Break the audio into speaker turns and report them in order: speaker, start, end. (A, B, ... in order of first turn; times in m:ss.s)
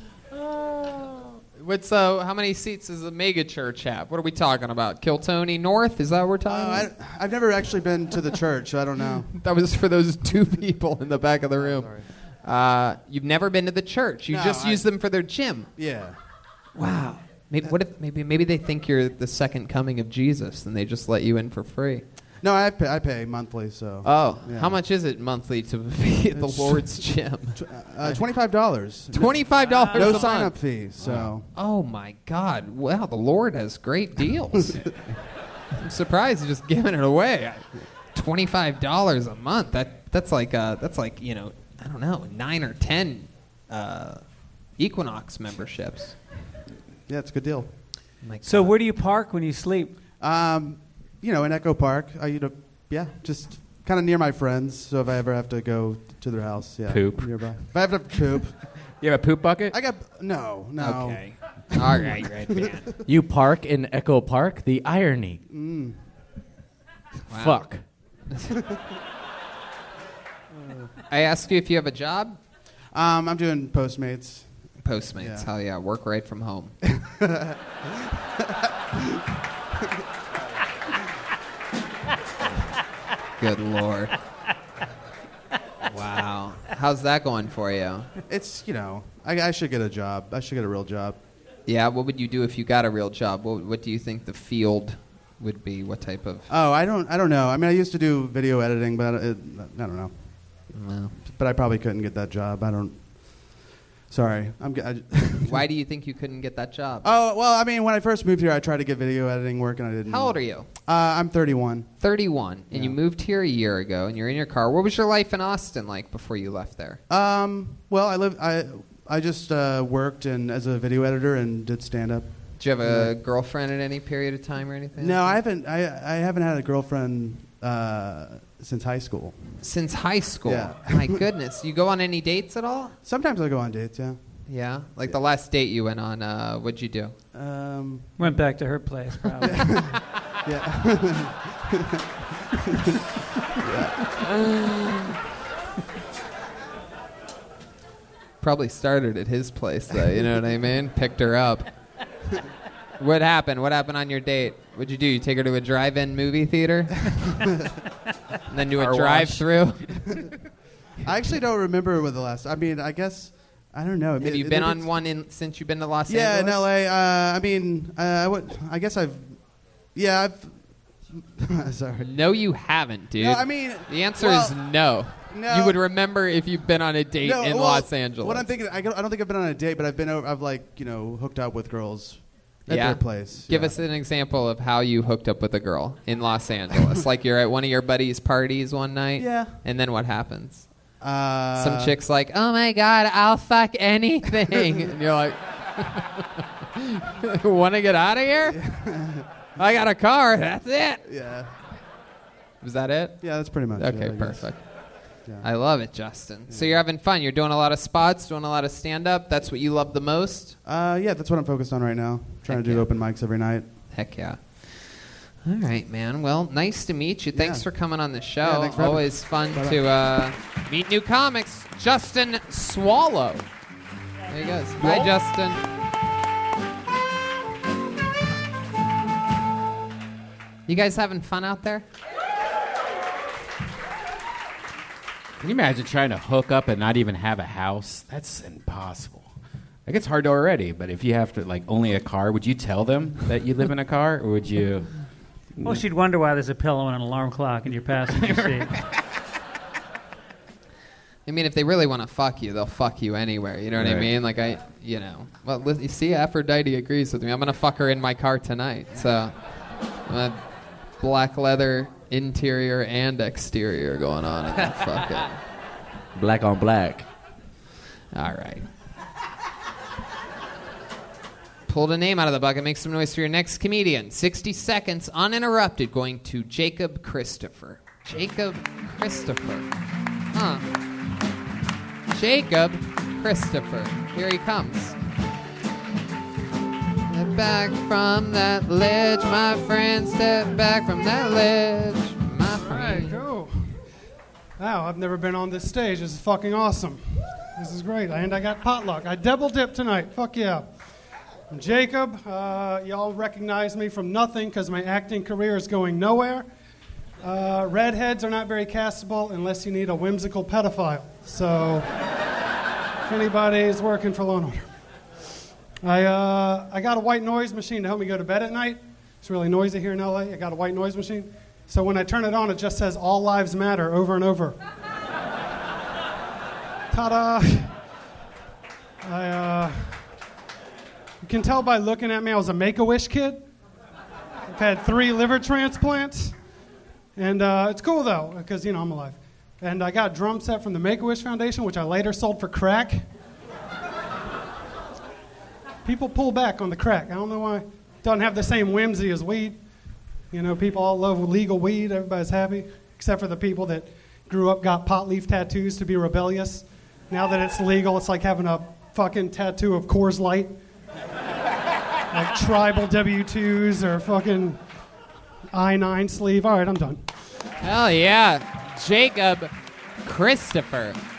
0:00.4-0:06.9 A
0:06.5-0:09.3 B
0:09.3-0:15.7 A
0:14.3-0:14.9 B
0:15.8-0:16.2 B
0:16.8-0:22.0 A
0:22.4-0:24.8 B
0:24.0-0:27.6 A
0:26.3-0:31.5 B
0:29.1-0:30.6 A
0:29.5-0:30.4 C
0:31.6-0:34.8 A
0:34.6-0:34.9 B
0:35.8-0:44.2 A
0:44.8-0:46.2 A
0:47.1-0:47.8 B
0:48.2-0:48.7 A
0:48.4-0:50.0 C
0:50.2-0:58.6 B
0:56.9-0:57.7 D
0:58.7-0:59.8 D
0:59.7-1:02.7 B
1:00.8-1:02.9 A
1:03.1-1:05.4 E
1:05.5-1:06.0 B
1:07.3-1:07.7 A
1:07.3-1:07.8 E
1:11.1-1:12.4 A
1:12.9-1:15.5 B
1:14.8-1:16.7 A
1:16.9-1:19.2 B
1:23.4-1:24.1 A
1:25.8-1:28.1 A
1:28.3-1:31.2 B
1:31.7-1:36.5 A
1:36.5-1:40.6 B
1:40.7-1:41.1 A
1:41.2-1:43.6 B
1:44.1-1:45.6 B
1:45.5-1:47.1 A
1:47.0-1:51.9 B
1:50.1-1:50.7 A
1:52.0-1:57.0 A
1:52.7-1:53.0 B
1:57.1-2:03.2 B
2:02.6-2:05.4 A
2:05.0-2:09.6 B
2:09.6-2:13.0 A
2:10.4-2:11.2 B
2:13.0-2:14.4 B
2:14.5-2:17.1 A
2:17.3-2:18.1 B
2:18.2-2:19.8 C
2:19.4-2:22.0 B
2:22.7-2:23.0 B
2:23.6-2:24.0 B
2:28.4-2:31.7 A
2:33.0-2:37.4 A
2:38.5-2:40.3 A
2:41.0-2:45.0 B
2:44.2-2:46.7 A
2:46.1-2:52.1 B
2:52.0-2:58.5 A
2:53.2-2:54.6 B
2:55.2-2:55.8 B
2:57.2-3:03.8 B
3:02.7-3:10.7 A
3:09.2-3:09.6 B
3:11.0-3:12.0 B
3:11.6-3:16.2 A
3:16.8-3:18.6 A
3:18.5-3:19.2 B
3:19.6-3:21.0 A
3:21.1-3:21.5 B
3:22.6-3:30.6 A
3:23.2-3:24.6 B
3:25.2-3:25.5 B
3:26.5-3:26.8 B
3:30.6-3:33.7 B
3:32.5-3:32.9 A
3:33.9-3:43.5 A
3:37.3-3:37.7 B
3:38.4-3:39.8 B
3:44.3-3:45.6 A
3:44.8-3:45.1 B
3:50.7-3:51.8 A
3:55.4-3:59.3 D
3:59.9-4:04.9 D
4:05.6-4:05.8 D
4:05.6-4:08.7 C
4:11.3-4:19.5 A
4:13.8-4:14.1 D
4:20.1-4:20.4 A
4:21.0-4:25.4 A
4:26.2-4:27.1 E
4:28.1-4:28.7 A
4:31.7-4:39.7 A
4:40.3-4:40.7 A
4:42.1-4:45.0 A
4:47.1-4:53.2 A
4:52.6-4:53.8 F
4:54.6-5:00.7 F
5:01.5-5:06.5 F
5:07.2-5:11.9 F
5:13.1-5:14.7 F
5:15.8-5:24.6 F
5:26.9-5:27.8 F
5:29.0-5:30.0 F
5:31.2-5:33.4 F
5:34.5-5:36.4 F
5:37.2-5:43.0 F
5:45.8-5:49.6 F
5:50.3-6:00.6 F
6:02.1-6:04.6 F
6:05.5-6:07.0 F
6:07.6-6:11.0 A